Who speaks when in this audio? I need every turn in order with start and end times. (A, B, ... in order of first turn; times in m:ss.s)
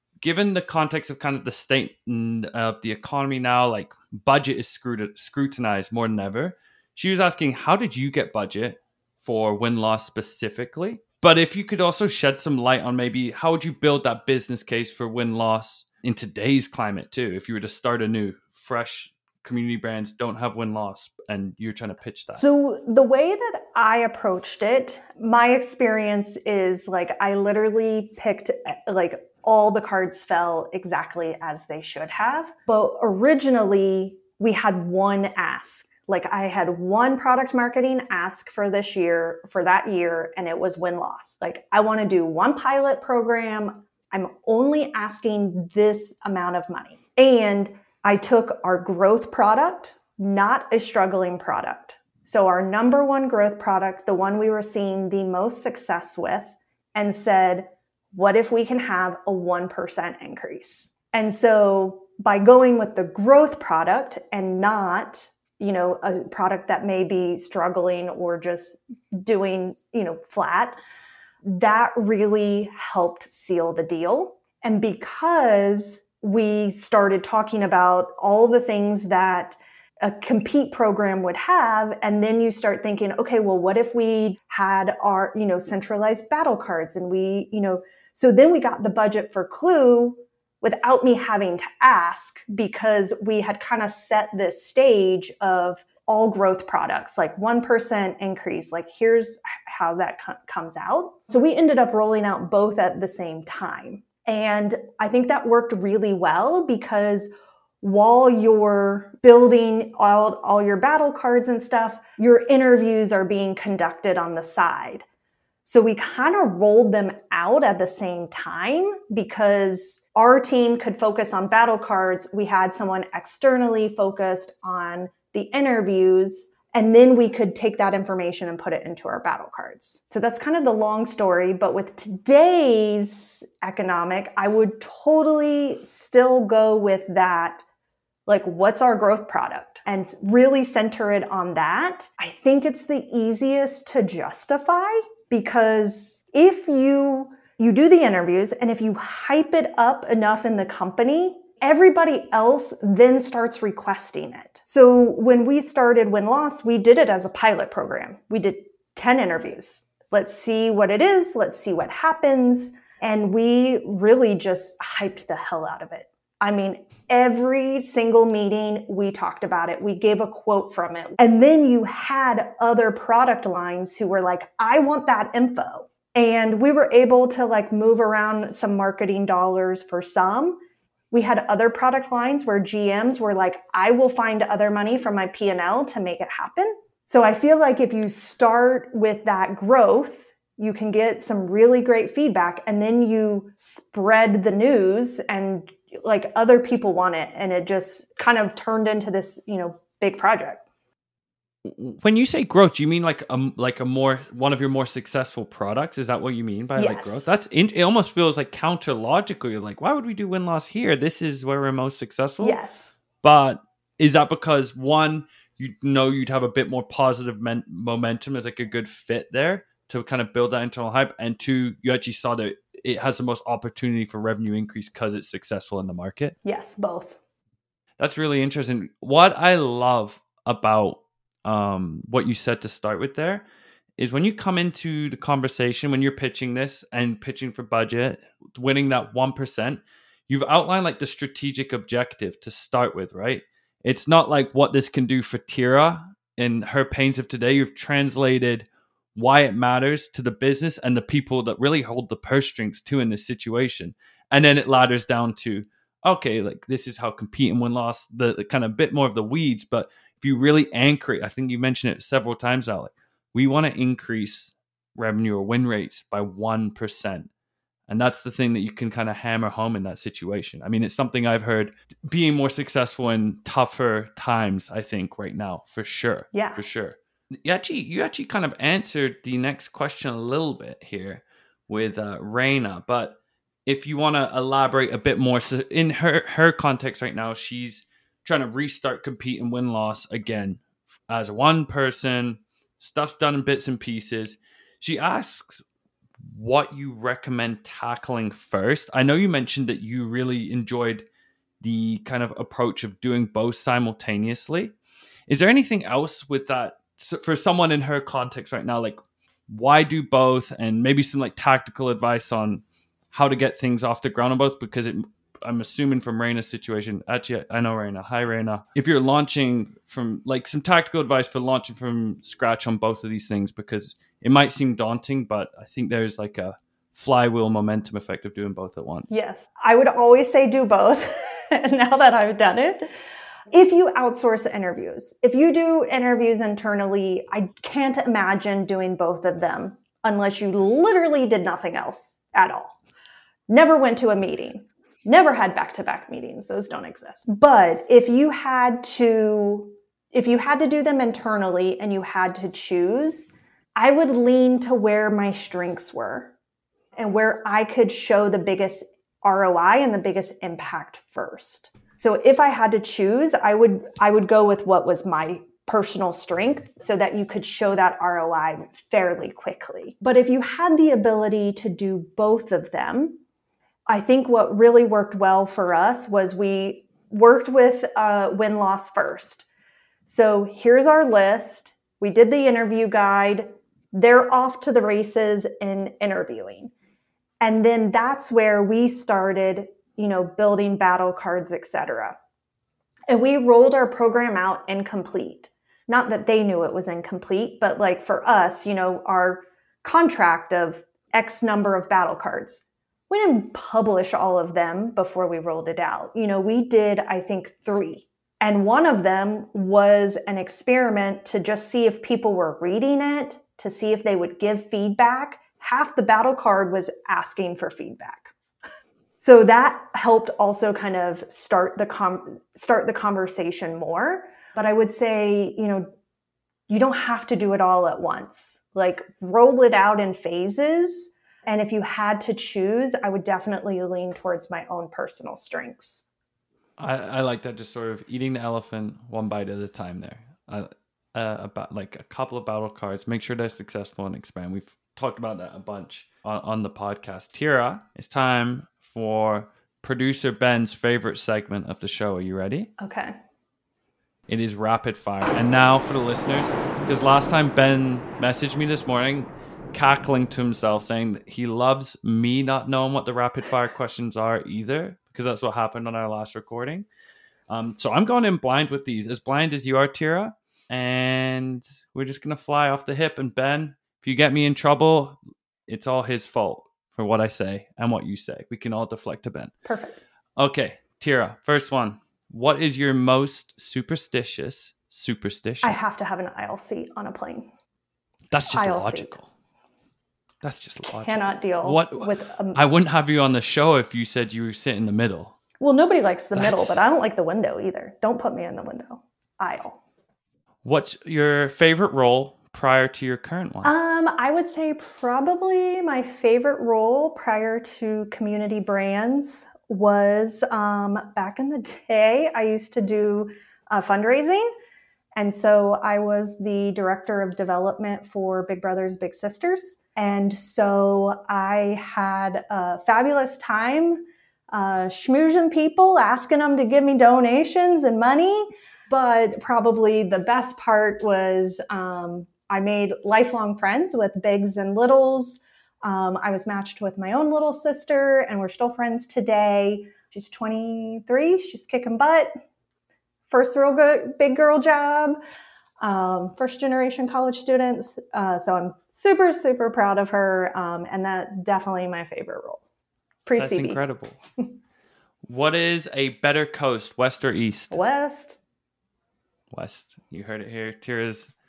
0:00.2-0:22.4 A
0:22.3-1:10.8 B
1:11.4-1:47.3 B
1:47.8-1:55.0 B
1:55.6-2:17.6 B
2:18.3-3:00.6 B
3:01.1-3:20.6 B
3:21.7-3:32.6 A
3:26.8-3:27.2 B
3:32.4-3:32.9 B
3:33.2-3:46.4 A
3:46.4-3:47.2 B
3:48.0-3:53.4 A
3:54.0-4:27.3 A
4:27.9-4:55.6 A
4:36.3-4:36.6 B
4:56.3-5:01.1 A
5:01.6-5:04.8 A
5:05.3-5:29.2 A
5:29.1-5:32.9 B
5:33.5-5:42.8 B
5:43.5-5:56.3 B
5:57.0-6:13.2 B
6:13.9-6:19.5 B
6:20.1-6:26.7 B
6:27.4-6:32.2 B
6:33.1-6:58.3 B
6:59.2-7:05.9 B
7:06.7-7:16.0 B
7:16.8-7:32.7 A
7:32.8-7:33.1 B
7:34.3-7:46.9 A
7:47.5-7:59.5 A
7:59.6-8:00.0 B
8:00.4-8:05.8 A
8:05.6-8:07.5 B
8:08.3-8:09.3 A
8:08.5-8:09.1 B
8:10.4-8:15.4 A
8:10.8-8:12.6 B
8:15.6-8:19.8 B
8:16.4-8:16.8 A
8:20.6-8:23.7 A
8:23.6-8:34.5 B
8:35.2-9:02.3 B
9:03.3-9:05.2 B
9:05.8-9:12.6 B
9:13.3-9:13.8 B
9:13.4-9:14.2 A
9:15.3-9:17.8 A
9:17.7-9:18.4 B
9:19.5-9:21.3 A